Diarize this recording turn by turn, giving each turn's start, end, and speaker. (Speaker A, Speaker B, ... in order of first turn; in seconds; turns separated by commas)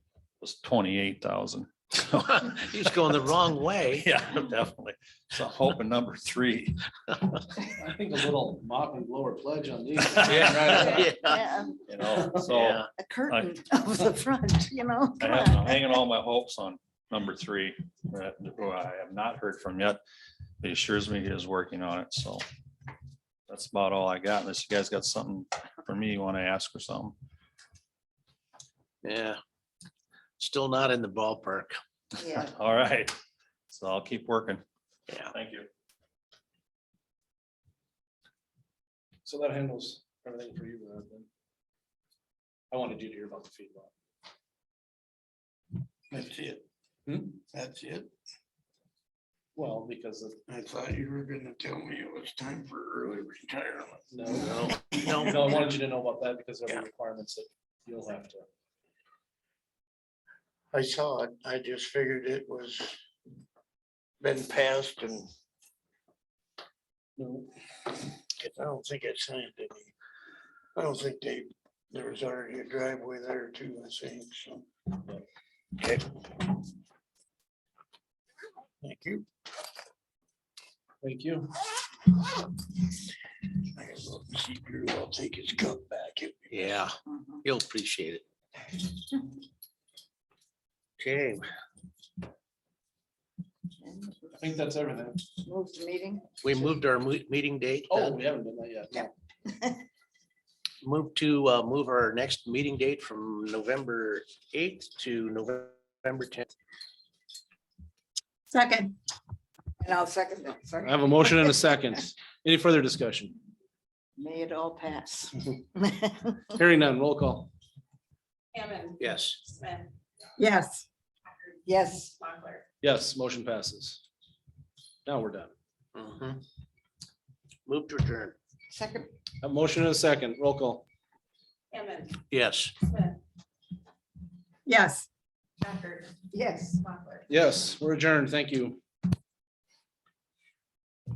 Speaker A: 0.4-3.0, Speaker B: 2.3-4.1, Speaker A: 3.9-6.8, Speaker C: 7.7-11.2, Speaker B: 10.3-11.4, Speaker D: 11.2-11.8, Speaker A: 11.9-13.5, Speaker B: 12.5-12.9, Speaker D: 13.0-15.8, Speaker A: 15.2-20.0, Speaker A: 20.6-22.4, Speaker A: 23.5-27.2, Speaker B: 29.0-29.4, Speaker B: 30.4-31.8, Speaker D: 32.2-32.5, Speaker A: 32.3-33.1, Speaker A: 33.7-34.6, Speaker A: 35.3-35.7, Speaker C: 39.2-41.3, Speaker C: 42.7-43.9, Speaker E: 46.1-46.6, Speaker C: 47.1-47.4, Speaker E: 47.4-48.1, Speaker C: 49.5-50.4, Speaker E: 50.5-55.2, Speaker C: 54.1-54.5, Speaker B: 54.4-55.5, Speaker C: 55.2-58.5, Speaker E: 60.7-63.0, Speaker E: 64.2-65.3, Speaker C: 67.2-67.5, Speaker E: 68.4-69.9, Speaker E: 70.8-74.7, Speaker E: 75.8-76.6, Speaker E: 78.8-79.3, Speaker C: 81.0-81.5, Speaker E: 83.8-86.7, Speaker B: 86.5-88.2, Speaker B: 91.0-91.4, Speaker D: 93.8-94.4, Speaker C: 94.4-95.3, Speaker D: 95.4-96.3, Speaker B: 96.4-98.2, Speaker C: 97.9-99.1, Speaker D: 99.5-99.8, Speaker B: 100.8-106.5, Speaker F: 108.5-108.9, Speaker D: 109.8-111.5, Speaker C: 110.8-113.4, Speaker D: 114.2-116.4, Speaker C: 116.5-117.5, Speaker F: 118.5-120.0, Speaker B: 119.0-119.4, Speaker D: 120.4-120.8, Speaker D: 121.7-122.1, Speaker F: 122.2-122.7, Speaker C: 122.8-124.0, Speaker C: 125.1-125.5, Speaker B: 126.0-126.4, Speaker B: 127.7-128.4, Speaker D: 128.7-129.1, Speaker C: 129.4-130.9, Speaker F: 131.7-132.2, Speaker B: 132.3-132.8, Speaker F: 132.8-133.2, Speaker D: 134.7-135.0, Speaker F: 135.6-136.3, Speaker D: 136.3-136.8, Speaker F: 136.8-137.4, Speaker C: 137.3-138.8